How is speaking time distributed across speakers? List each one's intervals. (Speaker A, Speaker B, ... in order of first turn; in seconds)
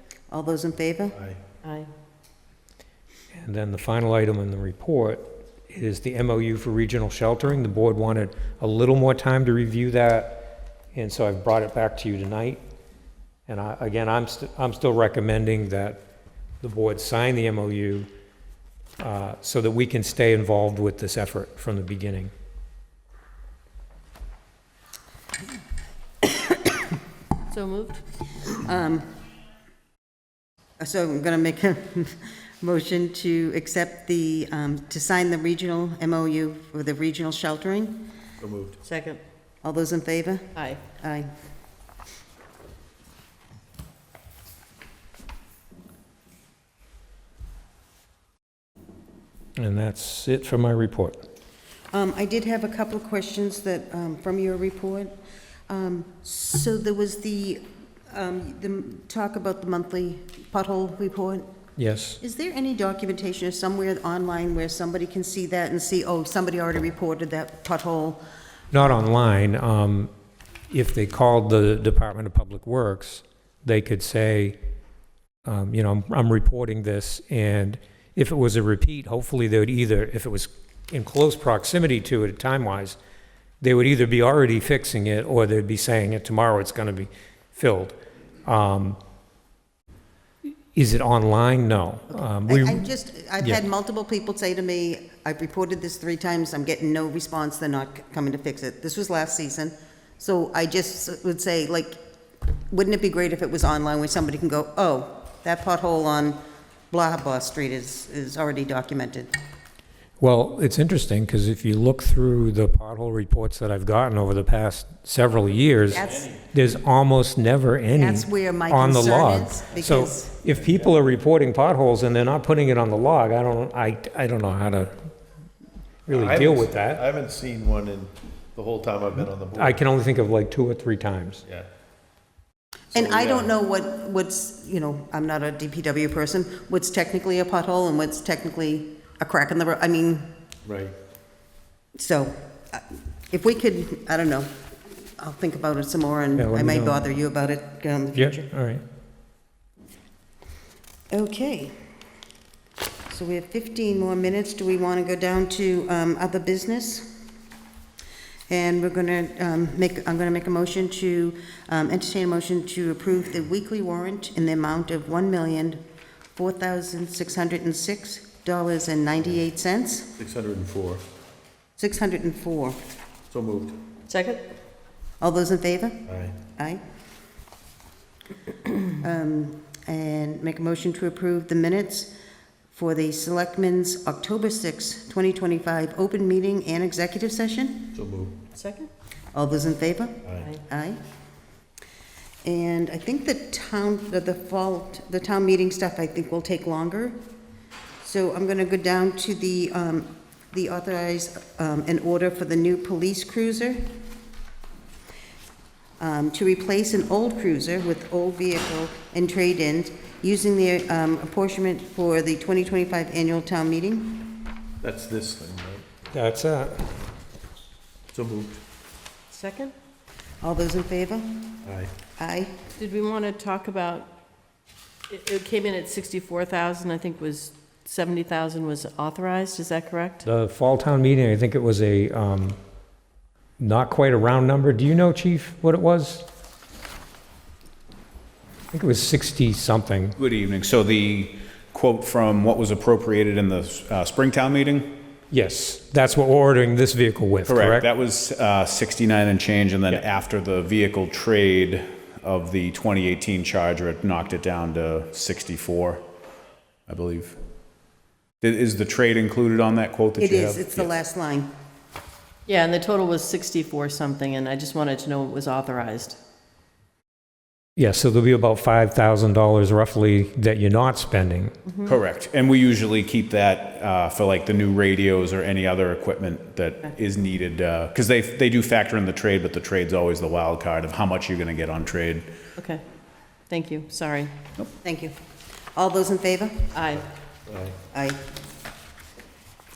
Speaker A: 0.3-1.1, 28.4-29.1, 30.8-38.1, 39.6-41.3, 51.9-55.1, 55.7-61.5, 62.2-68.2, 92.1-102.0, 102.7-106.4, 106.9-109.3, 115.9-116.3, 117.9-120.3, 132.9-140.3, 141.9-144.5, 145.2-148.5, 151.1-151.8, 153.1-157.2, 158.5-165.8, 166.3-170.1, 171.8-172.8, 175.2-176.8, 179.0-182.1, 182.7-187.9, 189.3-191.0, 192.4-197.2, 198.0-203.9, 206.0-214.4, 220.4-221.6, 222.2-222.5, 260.2-261.5, 284.8-285.1, 285.7-286.7, 287.9-288.2
Speaker B: 1.1-1.4, 38.4-38.8, 116.0-116.4, 126.1-129.8, 132.9-133.5, 140.6-140.9, 170.2-171.0, 173.3-173.8, 176.1-176.4, 187.9-188.4, 190.2-190.5, 214.8-215.8, 218.1-218.6, 221.6-221.9, 287.5-287.8
Speaker C: 1.6-1.9, 27.5-28.0, 38.8-39.2, 40.5-40.8, 174.1-174.4, 188.5-188.9, 219.3-219.7, 222.8-224.1, 225.1-230.2, 262.5-266.2, 271.7-272.0, 282.6-282.8, 283.5-284.3, 286.7-287.1
Speaker D: 3.3-12.6, 13.5-16.0, 16.6-18.1, 19.0-22.3, 49.6-51.2, 61.8-62.2, 68.7-70.1, 70.7-74.6, 75.5-83.0, 83.6-89.0, 90.7-92.9, 110.2-124.9, 126.1-127.0, 129.5-131.4, 146.4-147.0, 148.1-148.8, 216.1-216.9, 230.2-232.6, 233.6-236.2, 238.7-240.2, 245.3-247.8, 267.8-271.5
Speaker E: 240.2-244.9, 247.5-256.0, 256.9-257.4, 258.4-260.9, 271.9-282.3